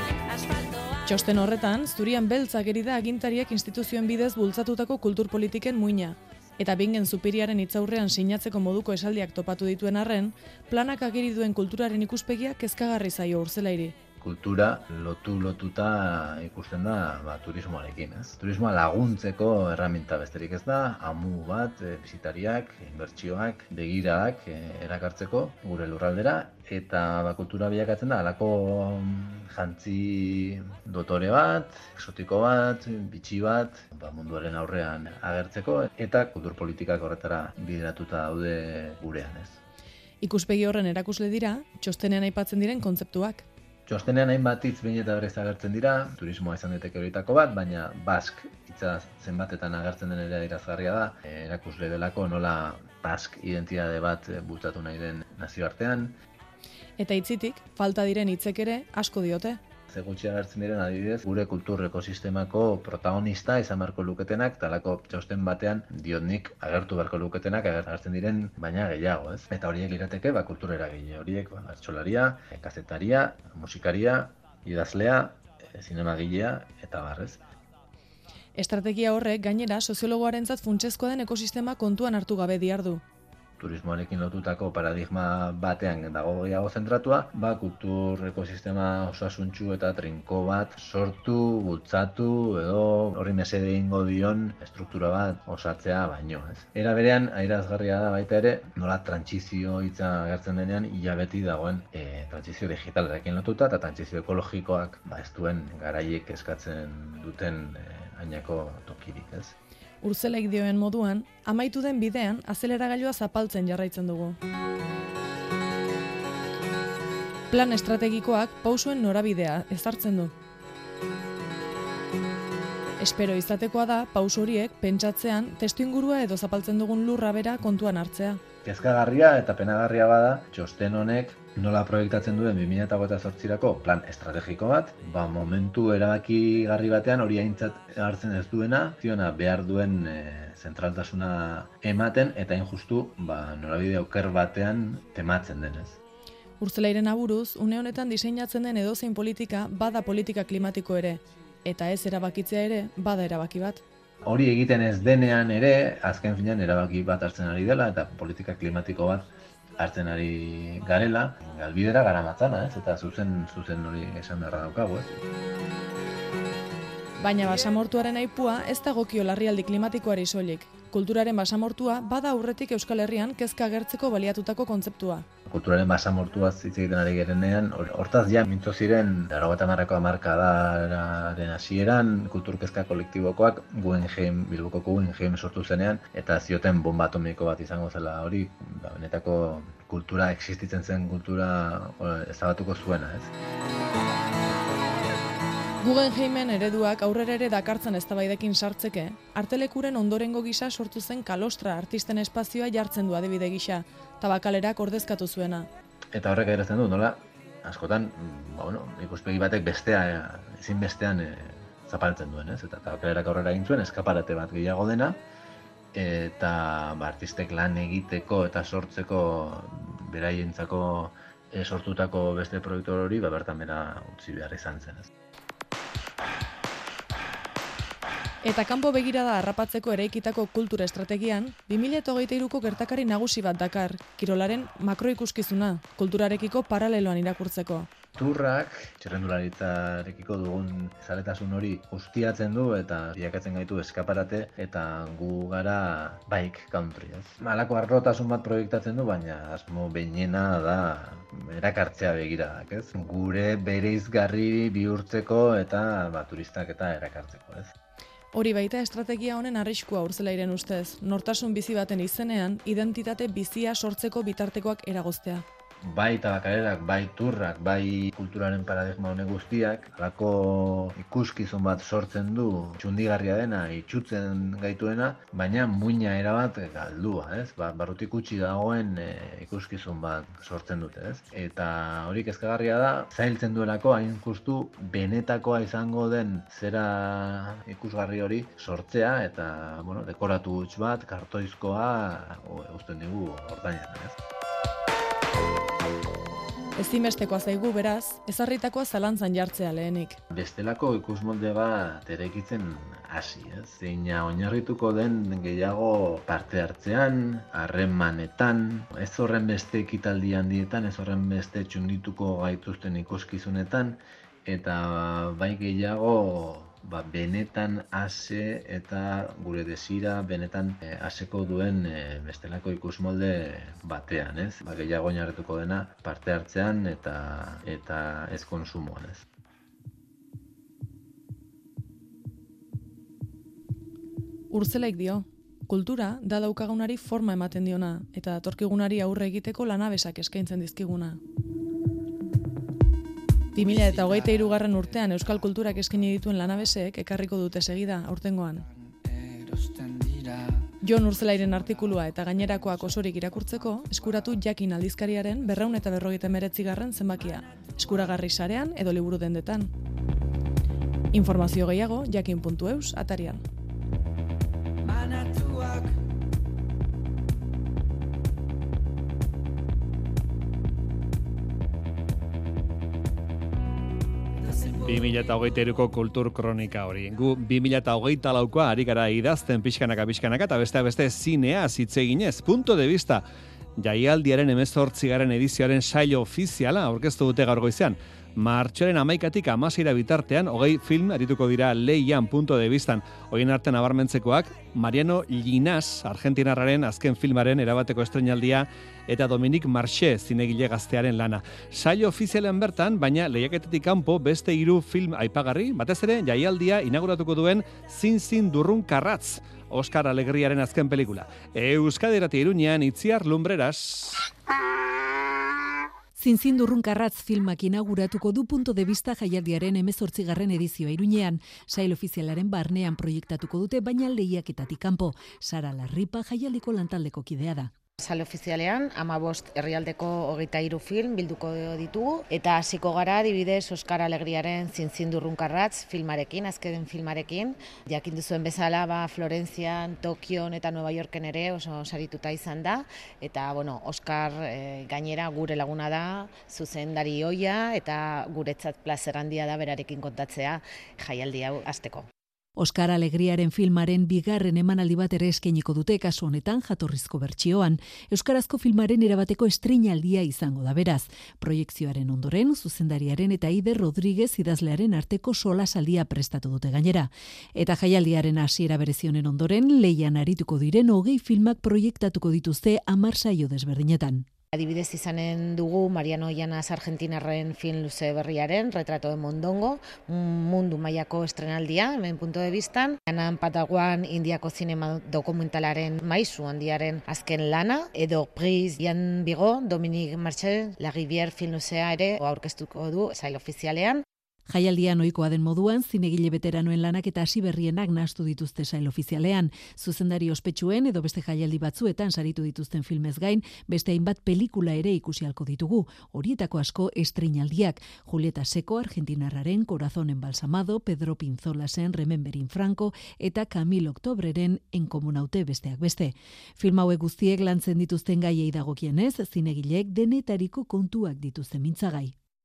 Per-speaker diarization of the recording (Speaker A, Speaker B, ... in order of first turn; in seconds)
Speaker A: 1.1-13.9, 40.2-43.5, 57.0-59.6, 78.6-83.0, 110.0-114.4, 117.5-120.3, 123.0-128.4, 146.6-153.8, 167.2-175.3, 195.8-205.7, 228.4-237.9, 258.3-265.4, 296.8-300.2, 334.5-341.2, 343.5-348.7, 350.8-359.7, 361.1-363.4
Speaker B: 14.2-39.6, 43.9-56.2, 59.9-77.4, 83.6-109.6, 128.6-146.0, 154.2-165.2, 175.5-193.3, 206.1-215.2, 215.9-225.1, 238.2-257.7, 265.8-294.2, 300.3-329.2
Speaker C: 374.8-383.2, 383.8-414.3
Speaker D: 416.2-427.7, 452.6-474.3, 494.5-522.1
Speaker E: 428.0-452.1, 474.5-494.0